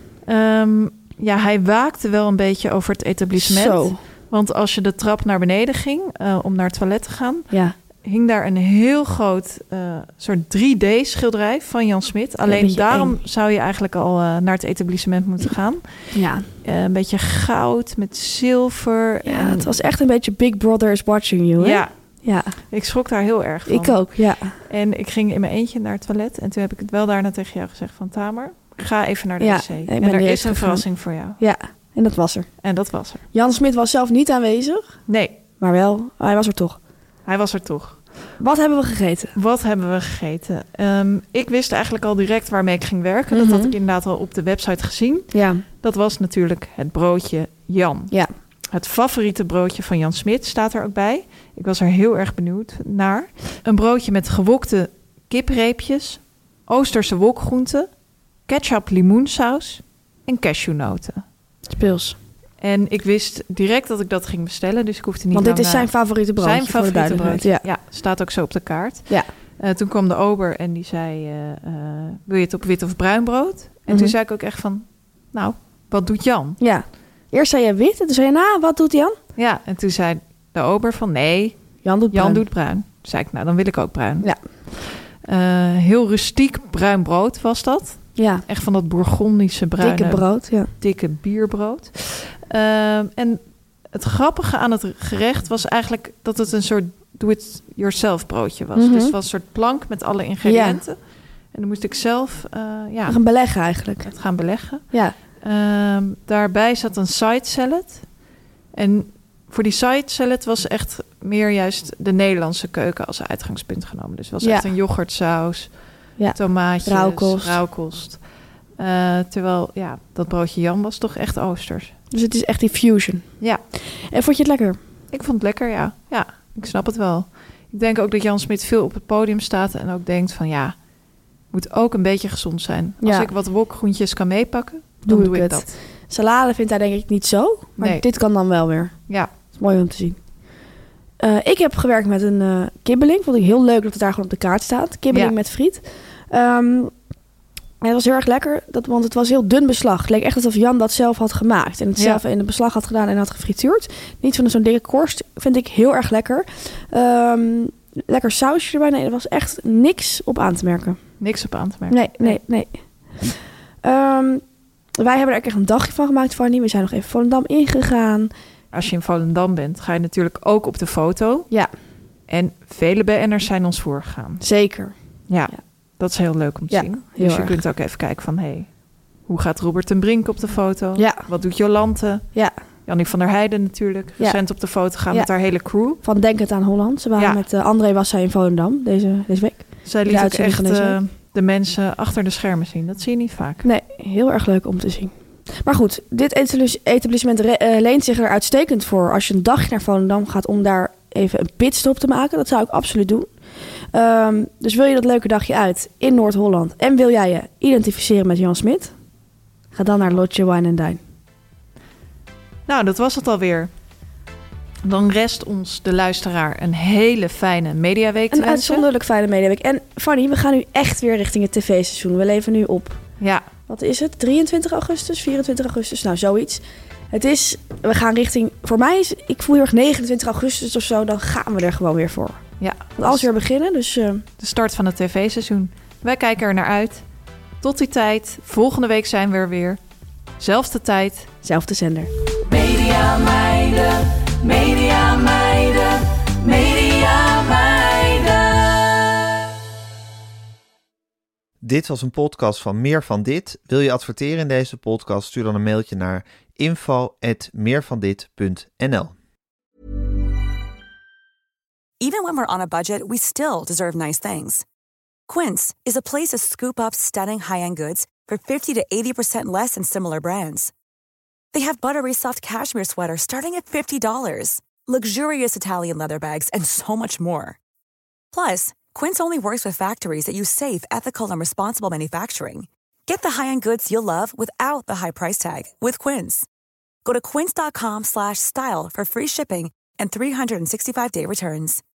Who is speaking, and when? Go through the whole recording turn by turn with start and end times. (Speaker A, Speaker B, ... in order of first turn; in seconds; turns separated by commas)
Speaker A: 0.2-19.8, Speaker B: 3.4-4.0, Speaker B: 7.5-7.8, Speaker B: 12.4-13.2, Speaker B: 16.1-16.5, Speaker B: 19.2-22.6, Speaker A: 21.6-21.9, Speaker A: 22.6-31.4, Speaker B: 23.7-24.6, Speaker B: 29.4-32.5, Speaker A: 32.6-33.2, Speaker B: 33.3-35.0, Speaker A: 35.1-35.4, Speaker B: 35.6-36.8, Speaker A: 37.3-38.0, Speaker B: 38.4-39.4, Speaker A: 39.4-48.1, Speaker B: 43.3-43.7, Speaker B: 45.3-45.6, Speaker A: 48.7-57.9, Speaker A: 58.5-61.2, Speaker B: 61.7-62.2, Speaker A: 62.6-76.6, Speaker B: 65.3-67.7, Speaker B: 73.9-74.2, Speaker B: 76.6-79.2, Speaker A: 79.4-81.6, Speaker B: 81.8-82.4, Speaker A: 82.1-93.4, Speaker B: 88.2-88.5, Speaker B: 89.8-90.7, Speaker A: 93.9-103.2, Speaker B: 98.8-99.2, Speaker B: 100.4-100.8, Speaker B: 103.1-104.1, Speaker A: 104.0-108.1, Speaker B: 104.9-105.2, Speaker A: 108.7-118.2, Speaker B: 114.4-114.7, Speaker B: 116.2-117.6, Speaker A: 118.8-121.9, Speaker B: 122.1-124.8, Speaker A: 125.1-130.8, Speaker A: 131.5-135.7, Speaker B: 133.0-133.3, Speaker B: 135.0-140.2, Speaker A: 137.8-138.0, Speaker B: 141.2-146.9, Speaker B: 147.8-161.0, Speaker A: 152.0-152.2, Speaker A: 161.2-162.4, Speaker B: 161.9-164.4, Speaker B: 165.0-168.3, Speaker A: 168.7-171.5, Speaker A: 172.3-174.4, Speaker B: 174.4-174.9, Speaker A: 175.3-178.7, Speaker B: 176.7-177.6, Speaker A: 179.3-182.3, Speaker B: 181.0-181.3, Speaker A: 182.9-186.0, Speaker B: 184.2-185.3, Speaker B: 186.0-191.0, Speaker A: 187.2-187.4, Speaker A: 189.9-193.7, Speaker B: 193.6-203.3, Speaker B: 203.9-208.9, Speaker B: 209.7-211.0, Speaker A: 212.7-213.7, Speaker A: 214.8-218.9, Speaker B: 218.3-223.0, Speaker A: 223.2-223.4, Speaker B: 223.7-234.3, Speaker A: 232.6-233.3, Speaker A: 234.4-237.0, Speaker A: 237.6-239.8, Speaker A: 240.4-241.3, Speaker B: 241.4-242.1, Speaker C: 242.4-249.3, Speaker D: 251.6-259.1, Speaker E: 262.0-264.6, Speaker E: 265.3-270.7, Speaker E: 271.5-277.6, Speaker E: 278.3-286.5, Speaker E: 287.1-291.8